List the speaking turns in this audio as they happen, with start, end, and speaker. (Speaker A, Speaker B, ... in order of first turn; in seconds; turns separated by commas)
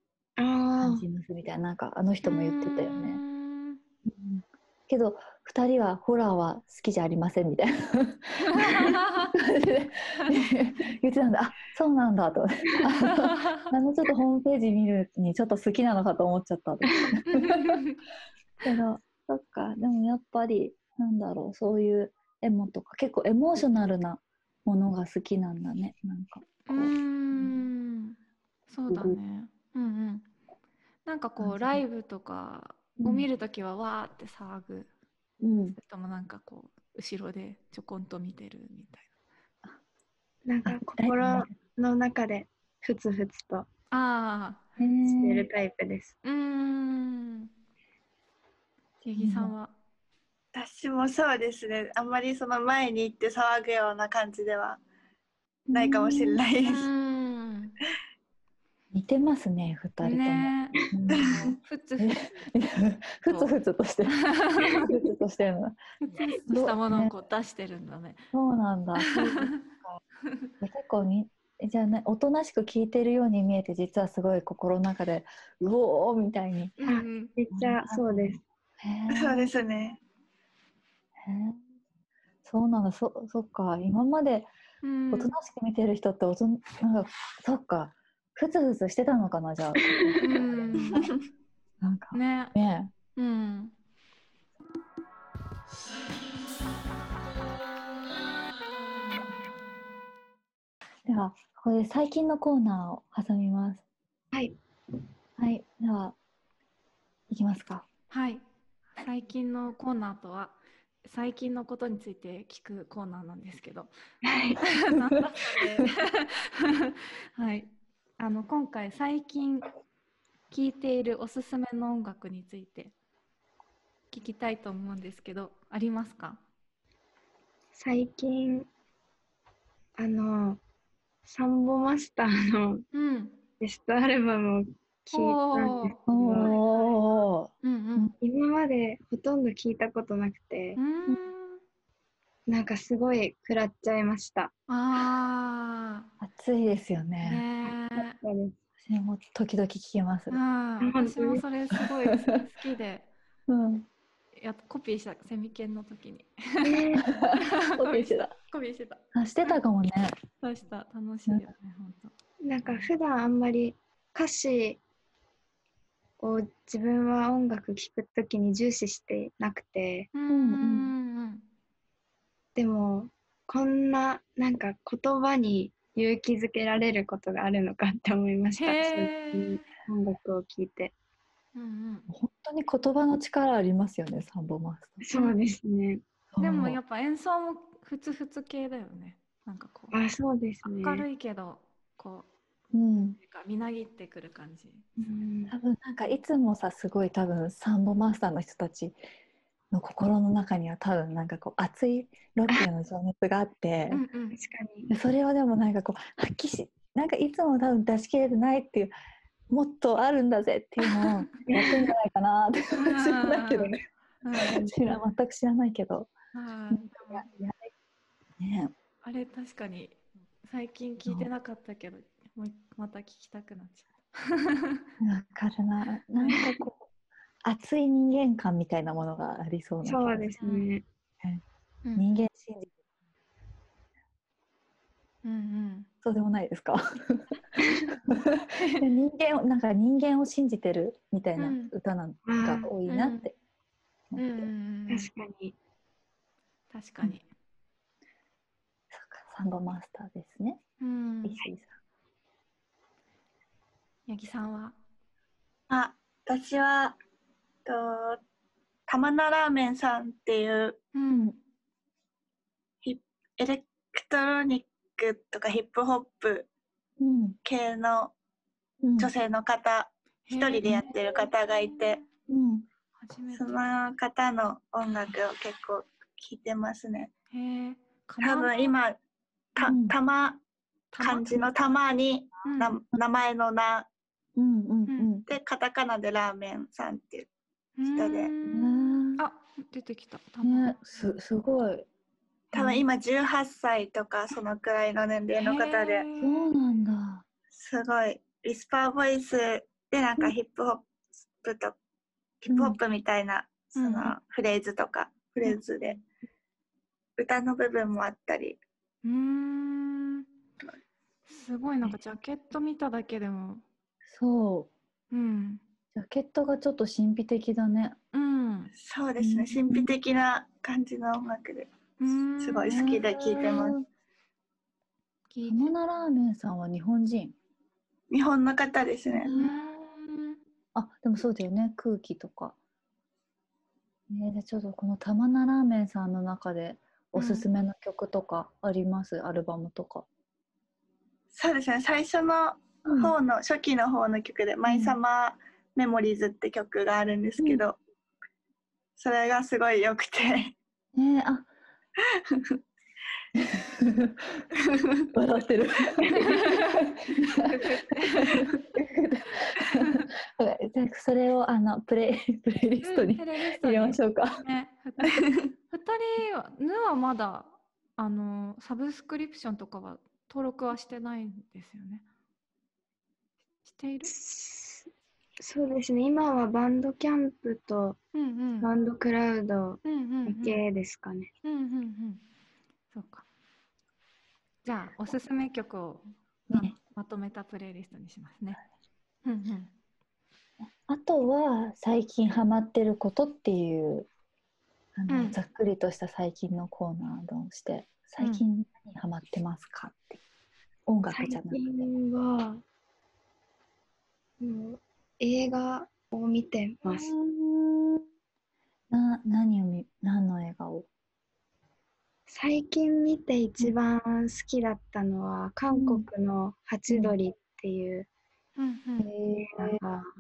Speaker A: 0.4-1.1, Speaker B: 0.8-3.2, Speaker C: 2.2-3.8, Speaker B: 4.1-17.8, Speaker C: 8.5-9.3, Speaker C: 13.1-13.7, Speaker C: 17.3-18.0, Speaker B: 18.6-27.6, Speaker C: 26.7-30.3, Speaker B: 28.9-29.2, Speaker C: 31.1-34.9, Speaker B: 31.4-31.8, Speaker B: 33.0-33.3, Speaker B: 35.4-35.8, Speaker C: 35.7-39.1, Speaker A: 40.5-43.7, Speaker B: 40.6-41.5, Speaker C: 43.9-44.7, Speaker B: 44.8-45.5, Speaker A: 45.0-46.1, Speaker C: 46.2-47.5, Speaker C: 49.0-49.7, Speaker B: 49.2-49.5, Speaker D: 50.5-54.8, Speaker B: 55.7-56.4, Speaker D: 55.7-56.9, Speaker C: 56.6-57.8, Speaker B: 58.9-65.8, Speaker C: 60.0-62.2, Speaker D: 61.1-61.6, Speaker C: 63.3-63.5, Speaker C: 64.2-64.9, Speaker C: 66.0-68.2, Speaker B: 66.5-67.1, Speaker B: 68.3-70.0, Speaker C: 69.0-69.6, Speaker B: 70.6-76.8, Speaker C: 76.8-77.3, Speaker A: 76.8-78.4, Speaker B: 77.5-79.5, Speaker D: 79.1-80.0, Speaker B: 81.2-81.6, Speaker B: 82.5-84.5, Speaker C: 84.8-85.3, Speaker B: 85.1-91.2, Speaker C: 90.2-91.1, Speaker B: 91.8-92.9, Speaker C: 92.1-92.5, Speaker C: 93.2-93.7, Speaker B: 101.1-103.8, Speaker B: 105.4-106.2, Speaker B: 107.3-107.9, Speaker C: 108.1-108.4, Speaker C: 109.0-113.9, Speaker A: 114.2-114.6, Speaker C: 114.6-119.7, Speaker C: 120.5-122.9, Speaker C: 124.1-126.4, Speaker A: 127.8-128.7, Speaker A: 130.0-130.6, Speaker A: 131.2-132.8, Speaker C: 132.9-133.4, Speaker A: 133.6-136.5, Speaker C: 135.1-138.1, Speaker B: 136.1-138.1, Speaker A: 138.2-140.8, Speaker C: 140.8-141.6, Speaker A: 142.5-144.5, Speaker C: 144.7-146.1, Speaker B: 146.2-147.4, Speaker C: 147.2-148.2, Speaker A: 148.0-148.6, Speaker B: 148.8-150.4, Speaker C: 150.3-153.1, Speaker A: 150.8-151.4, Speaker B: 153.5-153.9, Speaker C: 154.4-156.8, Speaker A: 156.6-157.1, Speaker B: 157.1-158.3, Speaker C: 157.4-159.6, Speaker B: 159.1-160.2, Speaker C: 160.4-162.1, Speaker A: 162.4-164.8, Speaker A: 166.2-170.1, Speaker C: 170.2-171.4, Speaker B: 170.3-170.9, Speaker A: 172.6-180.9, Speaker C: 178.6-179.7, Speaker C: 181.6-182.1, Speaker B: 182.1-185.0, Speaker A: 185.0-186.0, Speaker B: 186.3-186.8, Speaker C: 186.4-190.0, Speaker A: 189.9-191.1, Speaker C: 190.6-192.3, Speaker B: 192.7-193.2, Speaker C: 193.2-194.8, Speaker A: 195.0-195.5, Speaker B: 195.5-199.0, Speaker B: 199.7-204.0, Speaker C: 203.9-204.4, Speaker A: 204.3-204.9, Speaker B: 204.9-208.9, Speaker B: 209.5-213.8, Speaker A: 211.5-211.8, Speaker C: 212.8-214.6, Speaker B: 214.4-216.1, Speaker A: 214.5-214.9, Speaker C: 216.3-217.3, Speaker B: 216.7-217.7, Speaker B: 218.4-218.7, Speaker C: 219.0-224.9, Speaker B: 225.0-226.9, Speaker B: 227.4-230.3, Speaker A: 229.8-230.8, Speaker C: 230.4-230.7, Speaker B: 232.0-232.7, Speaker C: 235.2-235.9, Speaker B: 236.0-237.4, Speaker B: 238.1-243.3, Speaker C: 241.4-241.7, Speaker A: 242.3-242.7, Speaker C: 242.9-243.3, Speaker B: 244.1-244.5, Speaker C: 244.2-245.1, Speaker A: 244.9-245.6, Speaker C: 246.7-247.3, Speaker B: 248.9-250.6, Speaker C: 250.8-251.4, Speaker B: 251.2-251.7, Speaker C: 254.1-254.8, Speaker D: 255.7-257.0, Speaker D: 257.7-258.2, Speaker D: 258.9-260.8, Speaker C: 260.9-261.4, Speaker B: 261.1-261.4, Speaker D: 262.8-266.5, Speaker B: 267.0-267.4, Speaker D: 267.4-268.1, Speaker B: 268.8-269.1, Speaker D: 269.0-272.0, Speaker C: 270.3-272.1, Speaker B: 272.3-272.6, Speaker C: 273.0-273.7, Speaker D: 273.3-277.1, Speaker C: 277.3-278.7, Speaker D: 278.2-279.0, Speaker D: 279.6-280.4, Speaker B: 279.6-279.9, Speaker C: 280.9-281.3, Speaker D: 281.0-283.9, Speaker C: 282.4-282.8, Speaker B: 284.4-285.3, Speaker C: 284.9-285.1, Speaker D: 285.3-287.3, Speaker C: 287.8-291.1, Speaker D: 287.9-288.3, Speaker B: 288.5-289.2, Speaker B: 290.4-291.9, Speaker B: 292.5-292.8, Speaker D: 292.5-296.1, Speaker C: 295.4-296.5, Speaker B: 296.2-297.3, Speaker D: 297.5-301.8, Speaker D: 302.4-306.0, Speaker B: 302.5-302.8, Speaker C: 303.8-304.1, Speaker D: 307.2-308.6, Speaker C: 309.0-310.3, Speaker C: 311.3-313.6, Speaker B: 314.1-314.7, Speaker C: 315.1-315.6, Speaker B: 315.9-318.0, Speaker C: 318.1-318.7, Speaker D: 318.8-321.7, Speaker B: 319.2-319.9, Speaker C: 322.0-322.9, Speaker D: 322.4-323.8, Speaker B: 322.7-323.9, Speaker C: 325.3-325.8, Speaker B: 325.5-327.4, Speaker D: 328.1-329.3, Speaker B: 329.2-329.7, Speaker C: 329.3-330.4, Speaker B: 330.8-332.6, Speaker B: 334.1-340.1, Speaker C: 337.1-337.5, Speaker D: 341.3-347.8, Speaker B: 342.9-343.1, Speaker B: 344.6-345.0, Speaker D: 349.0-350.6, Speaker B: 350.9-351.5, Speaker D: 352.2-352.5, Speaker B: 353.4-354.4, Speaker B: 355.1-357.6, Speaker C: 356.1-358.6, Speaker B: 358.2-364.4, Speaker C: 359.8-360.1, Speaker C: 362.8-372.0, Speaker C: 373.6-374.1, Speaker A: 374.1-378.0, Speaker C: 378.1-378.7, Speaker A: 378.6-381.3, Speaker C: 379.8-380.6, Speaker C: 381.4-382.2, Speaker C: 382.9-383.2, Speaker C: 384.6-388.6, Speaker B: 386.5-386.8, Speaker C: 389.2-389.7, Speaker B: 390.7-394.1, Speaker B: 395.0-400.2, Speaker C: 395.1-395.4, Speaker B: 400.9-401.7, Speaker A: 401.1-402.6, Speaker A: 404.4-407.1, Speaker B: 406.9-408.1, Speaker B: 408.9-410.9, Speaker A: 412.3-418.1, Speaker B: 415.7-416.1, Speaker B: 416.9-417.1, Speaker C: 418.6-419.1, Speaker B: 419.0-419.8, Speaker A: 419.5-420.1